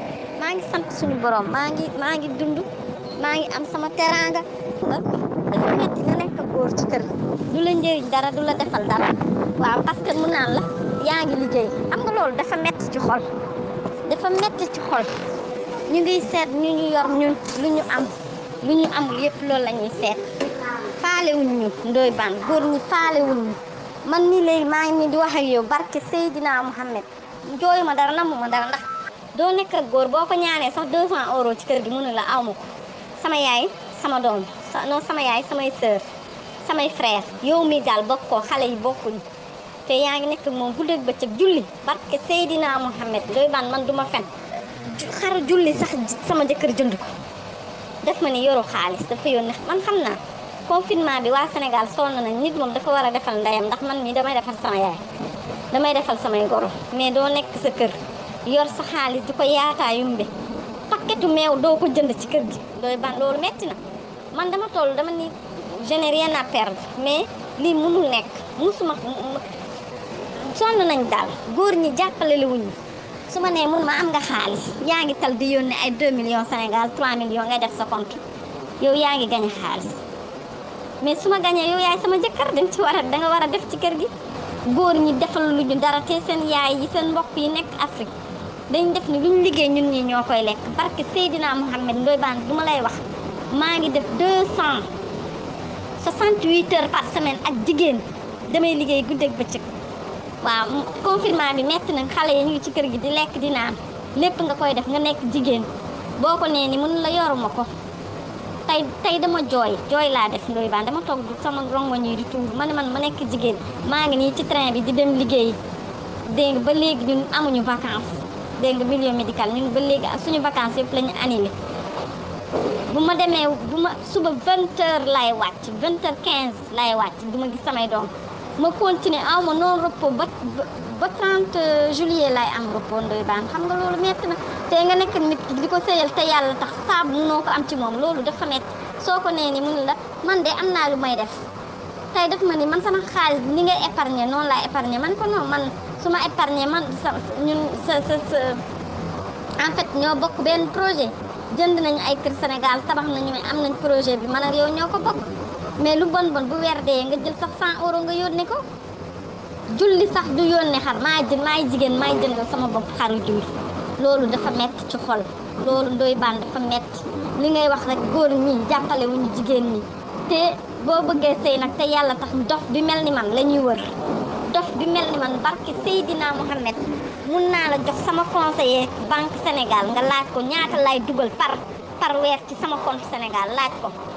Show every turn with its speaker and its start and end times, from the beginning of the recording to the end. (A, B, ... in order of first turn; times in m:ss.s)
0:00.4-0:02.7 A
0:03.2-0:13.3 A
0:14.1-0:15.1 A
0:15.9-0:20.3 A
0:21.0-0:28.8 A
0:29.4-0:36.0 A
0:36.6-0:39.2 A
0:39.9-0:44.3 A
0:44.9-0:47.1 A
0:48.0-0:55.0 A
0:55.7-1:00.3 A
1:00.9-1:03.8 A
1:04.3-1:09.4 A
1:10.4-1:12.8 A
1:13.3-1:18.2 A
1:18.8-1:20.0 A
1:21.0-1:24.1 A
1:24.7-1:28.1 A
1:28.7-1:33.0 A
1:33.5-1:34.9 A
1:36.0-1:39.6 A
1:40.4-1:47.7 A
1:48.7-1:55.6 A
1:56.3-2:01.6 A
2:02.9-2:21.4 A
2:22.1-2:28.6 A
2:29.6-2:38.6 A
2:39.7-2:53.9 A
2:54.5-3:04.0 A